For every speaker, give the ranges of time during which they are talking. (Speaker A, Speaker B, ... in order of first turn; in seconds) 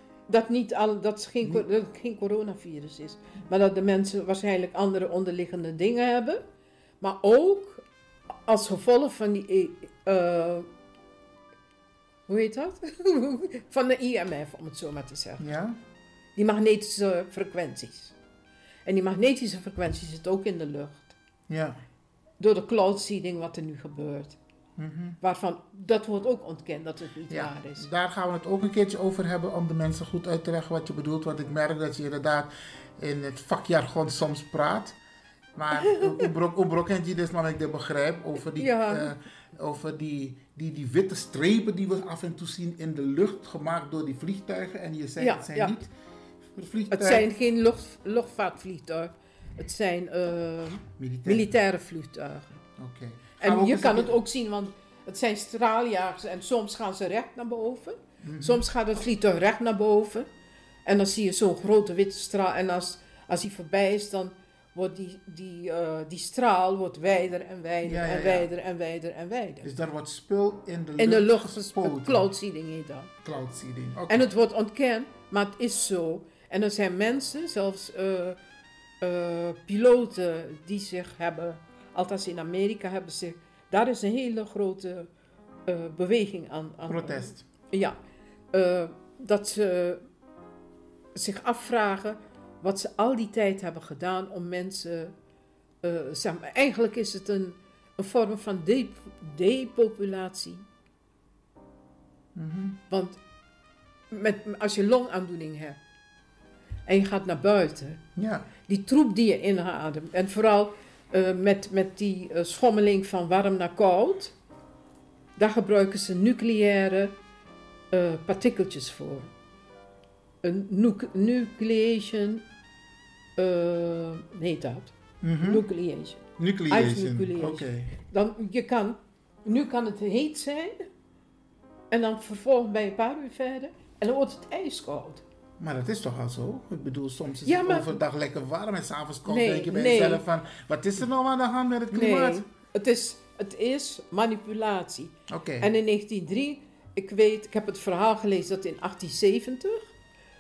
Speaker A: 0.3-6.5, 7.0-7.8, 8.4-10.7, 12.3-15.4, 16.4-18.1, 18.9-21.1, 22.4-24.4, 25.2-27.9, 38.6-39.1, 45.2-45.8, 46.9-52.6, 53.4-60.3, 60.9-69.7, 71.0-73.1, 74.1-78.4, 79.0-85.1, 85.7-88.0, 88.5-90.0, 91.2-95.1, 95.8-100.7, 102.9-103.2, 104.1-105.8, 106.9-108.0, 108.7-114.3, 115.4-117.1, 117.9-119.3, 120.4-122.5, 123.4-130.9, 131.9-135.2, 137.5-137.9, 139.3-140.2, 141.9-149.9
Speaker B: 15.4-15.8, 21.5-21.8, 24.8-25.2, 27.3-35.0, 35.6-45.9, 46.6-47.3, 51.0-51.5, 52.8-54.2, 58.2-58.6, 67.8-68.5, 69.6-72.3, 73.2-74.2, 86.9-87.4, 102.3-102.8, 108.2-108.5, 125.2-125.7, 126.4-127.9, 135.6-142.4, 145.3-145.7